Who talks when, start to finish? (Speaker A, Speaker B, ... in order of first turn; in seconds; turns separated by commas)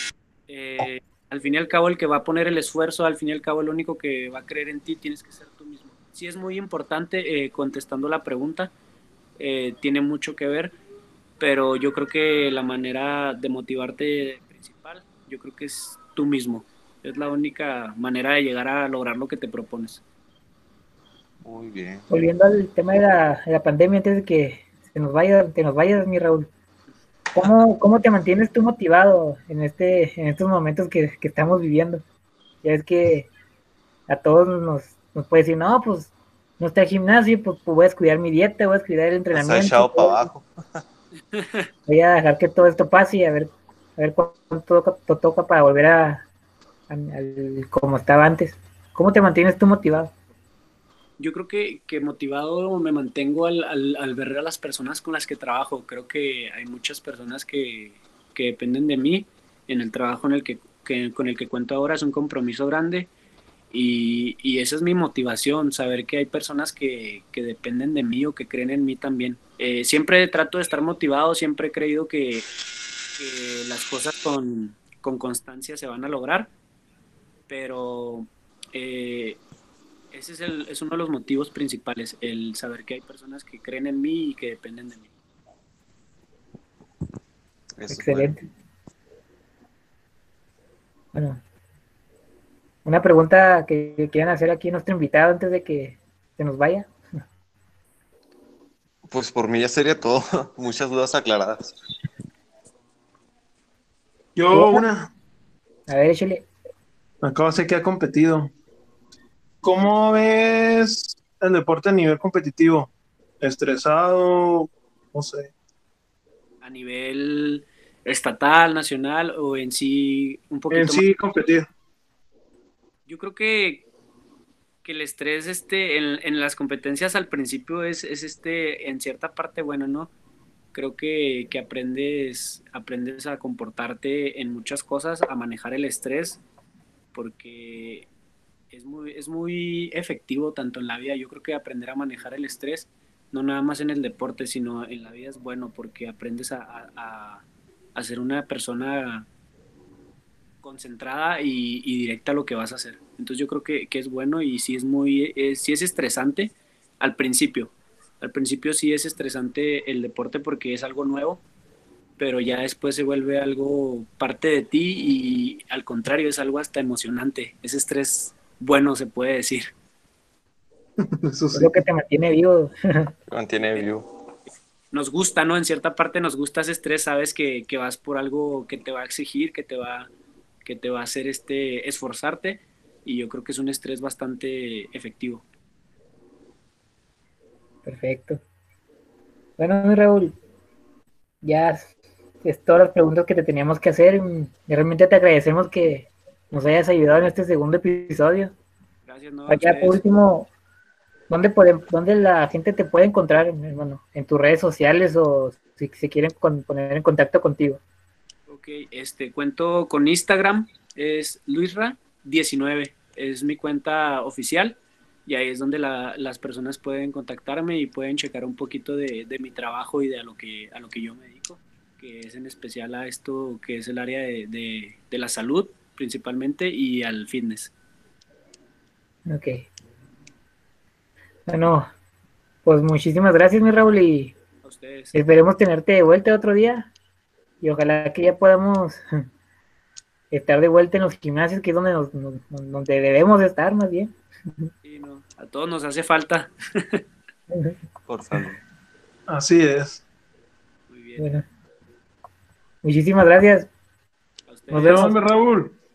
Speaker A: 0.5-8.7, Speaker A: 9.4-10.7, Speaker A: 11.4-20.0, Speaker B: 21.4-22.1, Speaker C: 22.1-26.5, Speaker C: 27.3-32.0, Speaker C: 32.6-33.3, Speaker C: 34.1-40.3, Speaker B: 39.3-40.8, Speaker A: 41.3-41.7, Speaker C: 41.9-46.3, Speaker C: 46.9-50.1, Speaker A: 51.2-63.1, Speaker A: 63.7-72.5, Speaker A: 73.2-76.5, Speaker A: 77.5-79.4, Speaker A: 80.1-85.1, Speaker B: 87.8-88.3, Speaker C: 87.9-88.4, Speaker C: 91.1-91.4, Speaker C: 92.8-96.9, Speaker B: 99.0-101.8, Speaker D: 104.4-105.1, Speaker C: 104.5-104.8, Speaker C: 105.9-106.5, Speaker D: 107.2-108.5, Speaker D: 109.6-112.9, Speaker D: 113.4-115.5, Speaker A: 116.6-121.0, Speaker D: 120.7-121.7, Speaker A: 123.1-123.9, Speaker A: 124.8-130.1, Speaker A: 130.7-136.4, Speaker A: 137.1-138.1, Speaker A: 138.7-149.3, Speaker A: 150.6-161.4, Speaker A: 162.2-169.7, Speaker D: 171.0-171.8, Speaker C: 171.5-173.1, Speaker B: 173.3-174.1, Speaker A: 174.9-180.1, Speaker A: 180.6-185.4, Speaker C: 187.9-188.4, Speaker C: 189.6-190.4, Speaker C: 191.4-191.9, Speaker C: 192.4-198.5, Speaker A: 199.1-200.0, Speaker C: 199.5-200.5, Speaker C: 201.3-207.8, Speaker A: 208.5-227.7, Speaker C: 229.3-229.7, Speaker C: 231.5-231.9, Speaker C: 232.7-234.3, Speaker A: 234.6-235.2, Speaker C: 235.1-236.9, Speaker C: 237.6-239.0, Speaker C: 240.3-244.7, Speaker A: 244.8-247.0, Speaker C: 247.5-247.8, Speaker B: 248.1-248.6, Speaker D: 249.3-250.0, Speaker A: 250.9-251.3, Speaker C: 251.2-251.4, Speaker C: 252.8-253.7, Speaker A: 254.5-255.1, Speaker C: 254.7-255.2, Speaker D: 254.8-255.8